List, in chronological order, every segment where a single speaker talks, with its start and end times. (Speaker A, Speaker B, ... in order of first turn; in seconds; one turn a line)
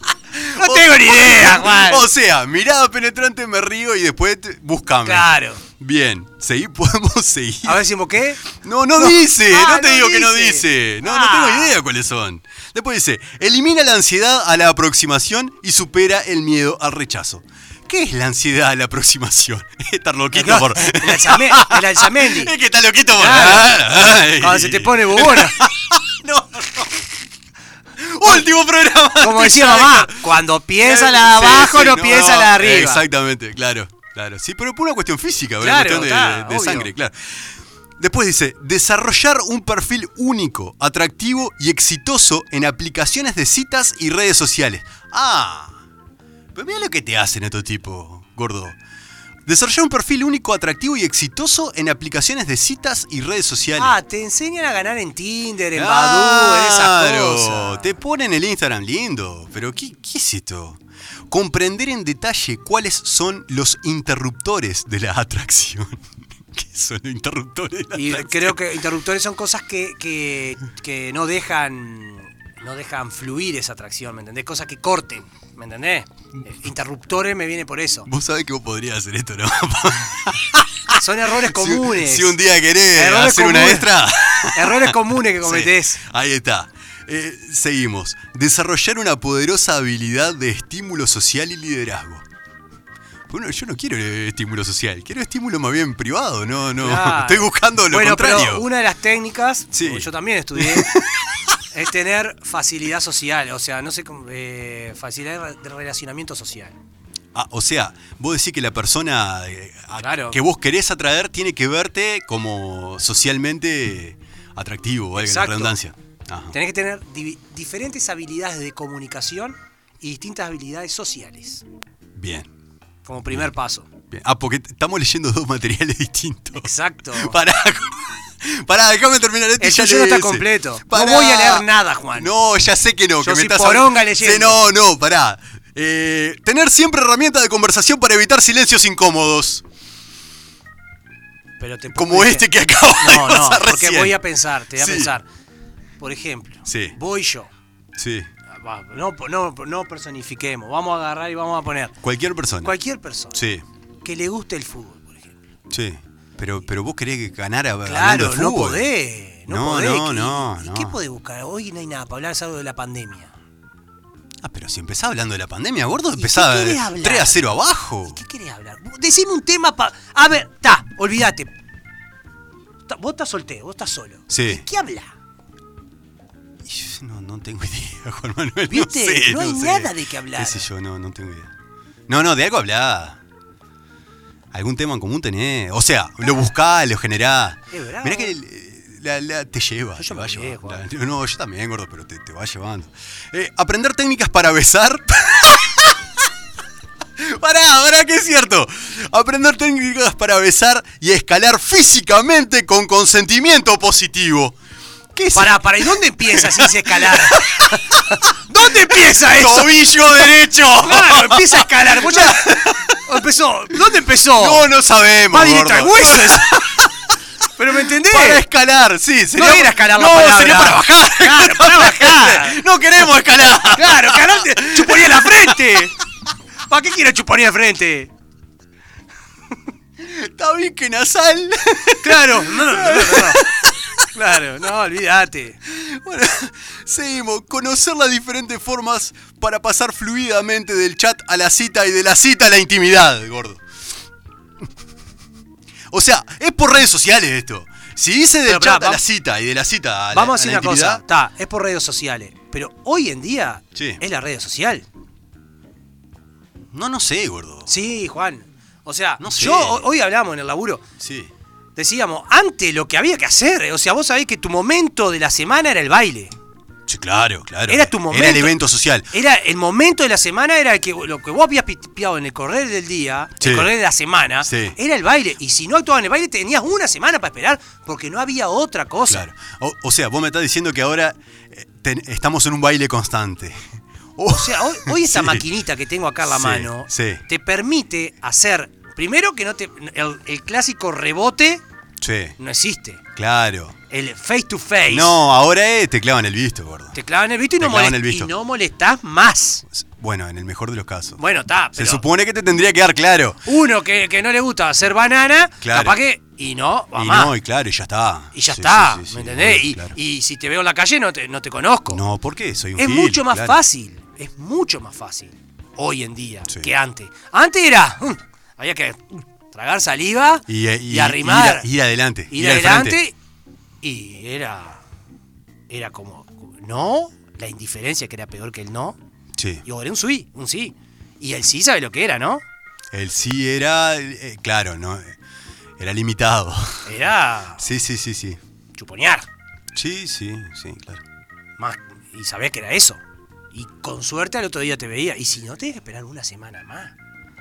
Speaker A: 0.3-7.8
Speaker B: 0.6-2.1
Speaker B: 5.0-5.6
Speaker B: 7.7-8.4
Speaker A: 8.4-27.1
Speaker B: 9.0-11.8
Speaker B: 20.3-22.5
Speaker B: 23.2-25.6
Speaker A: 28.0-45.8
Speaker B: 29.2-33.0
Speaker B: 35.6-36.9
Speaker A: 46.5-48.8
Speaker A: 49.5-54.0
Speaker B: 53.8-57.9
Speaker A: 55.8-68.6
Speaker B: 67.9-78.1
Speaker A: 78.1-92.2
Speaker B: 80.9-82.4
Speaker B: 82.9-83.9
Speaker B: 84.5-86.0
Speaker A: 93.3-98.7
Speaker B: 96.8-100.9
Speaker A: 99.7-101.6
Speaker B: 101.7-106.7
Speaker A: 107.3-116.6
Speaker B: 110.0-110.4
Speaker B: 115.2-115.8
Speaker B: 116.5-121.6
Speaker A: 122.2-122.5
Speaker B: 123.0-123.9
Speaker A: 124.1-139.6
Speaker B: 126.6-127.4
Speaker B: 129.6-132.3
Speaker B: 133.2-134.6
Speaker B: 141.6-142.5
Speaker A: 141.9-144.2
Speaker B: 143.0-145.3
Speaker A: 144.8-145.1
Speaker B: 146.0-147.5
Speaker A: 146.7-146.9
Speaker A: 148.0-148.3
Speaker B: 148.5-151.9
Speaker A: 152.0-152.7
Speaker B: 152.6-153.4
Speaker A: 153.3-153.6
Speaker B: 154.0-155.4
Speaker A: 155.7-158.9
Speaker B: 157.8-163.3
Speaker A: 159.5-161.0
Speaker A: 164.4-168.2
Speaker B: 166.2-171.5
Speaker B: 172.9-175.1
Speaker A: 174.3-174.6
Speaker A: 176.6-181.5
Speaker B: 178.7-180.7
Speaker A: 182.1-183.2
Speaker A: 184.5-196.2
Speaker B: 187.7-188.3
Speaker B: 190.0-190.8
Speaker A: 197.2-204.6
Speaker A: 205.1-208.0
Speaker B: 205.3-210.0
Speaker A: 208.6-213.0
Speaker B: 210.8-214.7
Speaker A: 214.3-216.9
Speaker B: 215.3-216.6
Speaker B: 217.6-218.4
Speaker A: 217.9-225.9
Speaker B: 219.3-222.6
Speaker B: 223.6-225.9
Speaker B: 226.7-228.1
Speaker A: 230.0-234.1
Speaker B: 232.0-233.5
Speaker B: 234.1-235.6
Speaker A: 235.7-243.6
Speaker A: 245.9-251.0
Speaker B: 248.5-249.0
Speaker B: 250.1-254.9
Speaker A: 253.8-254.0
Speaker A: 256.7-257.7
Speaker B: 257.7-260.8
Speaker A: 259.2-259.9
Speaker A: 261.0-261.3
Speaker B: 261.8-266.3
Speaker A: 266.9-269.1
Speaker B: 267.7-268.6
Speaker B: 269.1-279.3
Speaker A: 273.4-273.7
Speaker A: 274.4-274.8
Speaker A: 279.1-285.4
Speaker B: 284.3-291.6
Speaker A: 286.2-287.2
Speaker A: 292.0-292.4
Speaker B: 292.4-293.0
Speaker A: 293.2-293.8
Speaker B: 293.9-295.1
Speaker A: 294.9-297.0
Speaker B: 296.9-299.6
Speaker A: 297.6-298.3
Speaker A: 299.7-301.2
Speaker B: 301.2-302.0
Speaker A: 301.7-303.4
Speaker B: 303.5-307.3
Speaker A: 305.6-306.0
Speaker A: 306.9-310.0
Speaker B: 308.3-312.0
Speaker A: 311.9-313.6
Speaker B: 312.8-321.7
Speaker A: 316.5-316.7
Speaker A: 320.5-323.0
Speaker B: 322.3-323.1
Speaker B: 323.8-324.8
Speaker B: 325.7-329.0
Speaker A: 329.4-329.6
Speaker B: 329.6-332.4
Speaker A: 332.9-335.2
Speaker A: 335.8-336.9
Speaker B: 336.9-337.6
Speaker A: 337.6-338.4
Speaker B: 338.8-339.3
Speaker A: 339.7-341.0
Speaker B: 341.6-343.0
Speaker B: 343.5-346.9